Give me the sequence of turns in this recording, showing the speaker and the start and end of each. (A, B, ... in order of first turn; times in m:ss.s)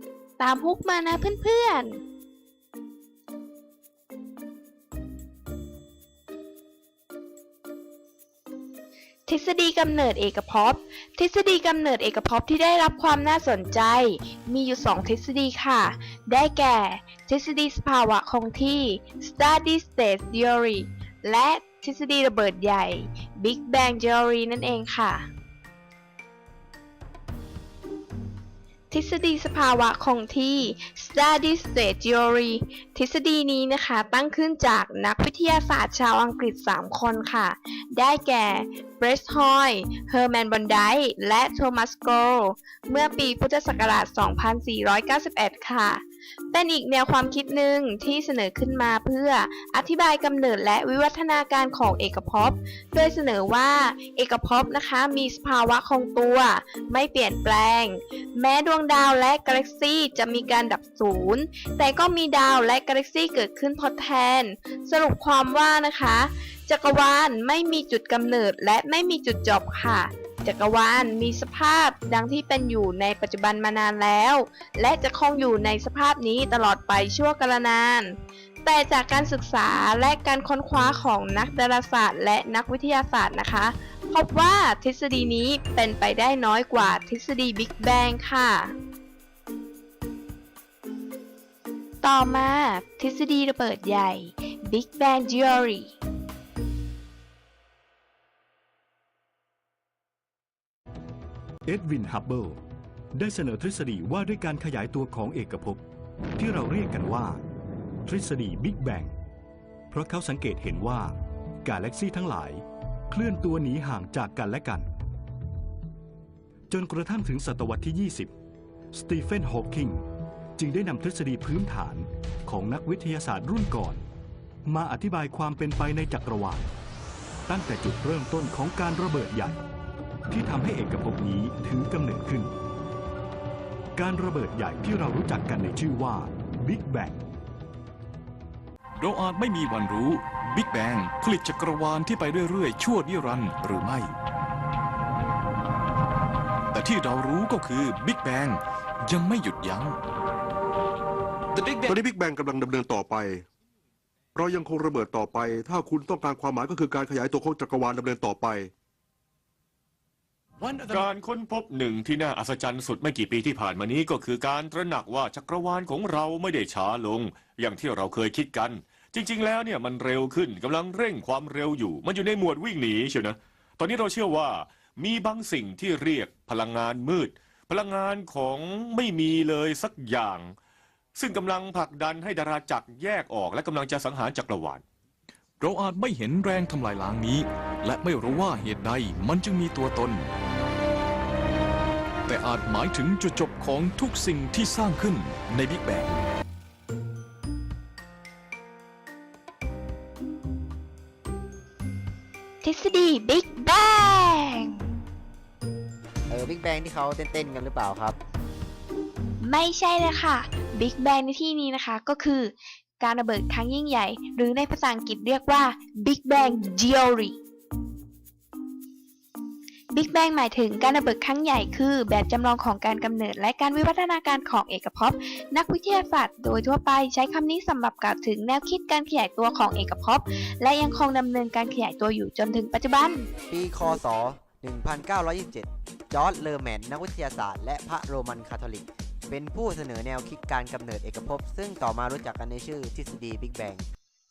0:00.4-0:02.0 A
0:09.3-0:25.3 A
0:28.9-1:28.7 A
1:32.0-1:35.9 A
1:41.6-1:42.6 B
1:43.2-1:45.8 B
1:46.4-1:47.4 B
1:48.0-1:49.1 B
1:49.9-1:54.8 B
1:56.7-1:58.3 B
1:58.9-2:00.0 B
2:00.6-2:04.0 B
2:04.7-2:06.7 B
2:07.5-2:09.6 B
2:10.3-2:12.5 B
2:14.0-2:17.2 B
2:19.0-2:24.1 C
2:26.7-2:30.0 C
2:31.9-2:33.4 D
2:34.3-2:38.7 D
2:40.9-3:00.5 E
3:01.2-3:04.8 E
3:05.6-3:10.3 C
3:12.3-3:16.2 C
3:22.6-3:24.9 A
3:26.3-3:28.2 F
3:29.4-3:37.4 A
3:39.9-3:53.3 A
3:53.5-4:03.8 F